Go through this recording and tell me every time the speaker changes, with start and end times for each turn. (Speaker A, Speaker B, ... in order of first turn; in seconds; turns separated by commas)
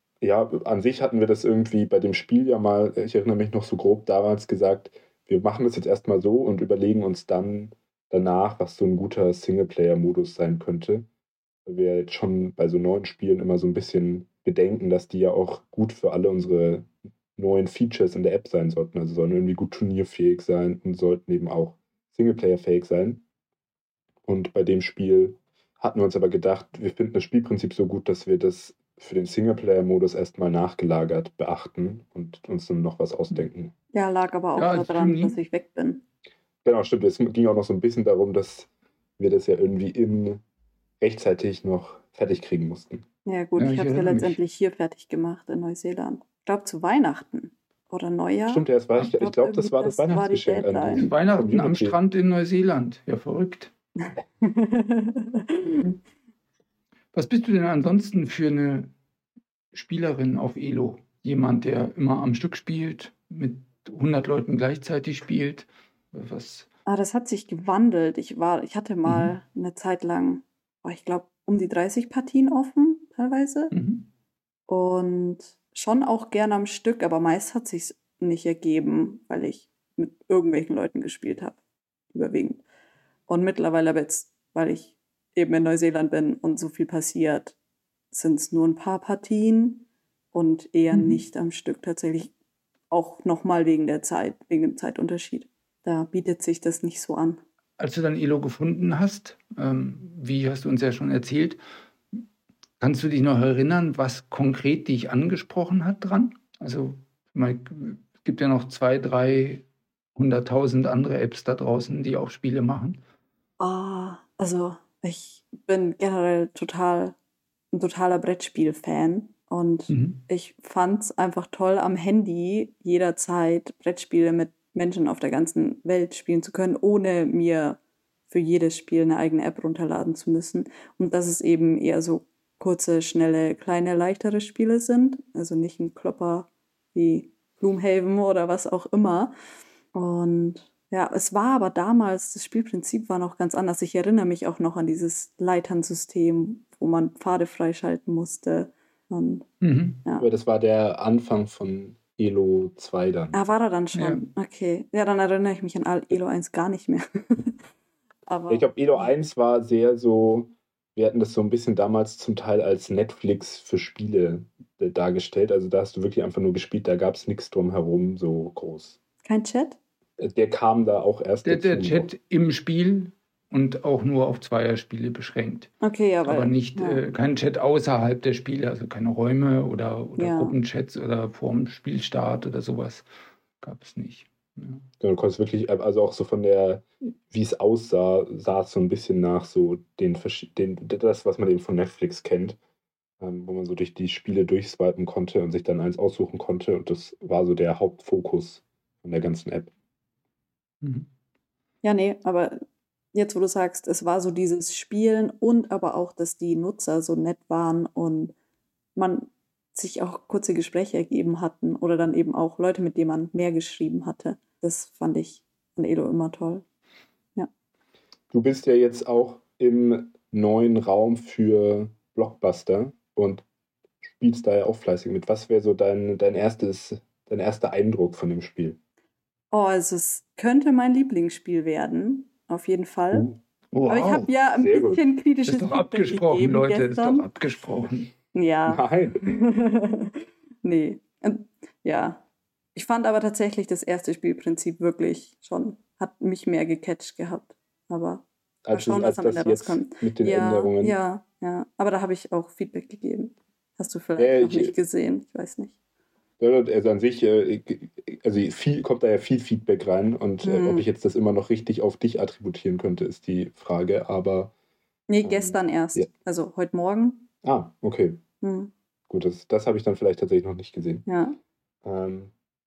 Speaker A: 0.2-11.1, Speaker A: 11.7-23.2, Speaker A: 24.2-33.7, Speaker B: 33.9-36.0, Speaker C: 34.5-35.4, Speaker A: 36.6-40.4, Speaker A: 41.0-43.0, Speaker B: 43.2-51.0, Speaker C: 43.6-44.4, Speaker A: 48.5-52.0, Speaker C: 50.9-53.7, Speaker B: 54.1-55.9, Speaker C: 57.1-58.9, Speaker C: 59.7-66.7, Speaker B: 66.8-73.7, Speaker C: 69.0-69.3, Speaker C: 73.7-74.1, Speaker B: 74.7-81.6, Speaker B: 82.1-82.6, Speaker B: 83.3-87.6, Speaker B: 88.1-92.3, Speaker C: 90.9-91.2, Speaker B: 92.9-97.4, Speaker C: 97.8-101.6, Speaker C: 102.8-109.6, Speaker C: 110.2-113.0, Speaker B: 113.6-117.2, Speaker B: 117.7-127.8, Speaker C: 119.9-120.2, Speaker B: 128.3-139.3, Speaker B: 139.9-149.5, Speaker C: 149.6-150.0, Speaker A: 150.2-153.4, Speaker B: 153.3-157.6, Speaker C: 153.9-154.2, Speaker B: 158.3-158.8, Speaker A: 158.5-169.0, Speaker B: 169.2-169.8, Speaker A: 170.2-172.1, Speaker C: 171.4-175.7, Speaker B: 175.8-177.0, Speaker C: 176.2-183.1, Speaker B: 180.2-180.5, Speaker C: 183.6-184.8, Speaker A: 185.0-192.6, Speaker A: 193.2-199.7, Speaker C: 200.8-201.1, Speaker B: 201.8-208.3, Speaker B: 208.9-216.6, Speaker A: 218.3-223.4, Speaker A: 224.0-228.8, Speaker B: 229.5-233.3, Speaker A: 233.1-233.4, Speaker C: 233.7-234.3, Speaker B: 233.9-237.3, Speaker A: 234.6-235.0, Speaker C: 235.4-238.1, Speaker B: 238.3-242.2, Speaker A: 238.7-239.2, Speaker B: 242.7-255.7, Speaker A: 248.6-251.0, Speaker A: 254.2-254.7, Speaker A: 256.4-264.5, Speaker B: 260.4-260.9, Speaker B: 265.1-267.2, Speaker A: 265.2-266.1, Speaker A: 267.4-268.2, Speaker B: 268.4-268.7, Speaker A: 269.1-271.0, Speaker B: 271.1-271.4, Speaker A: 271.8-272.3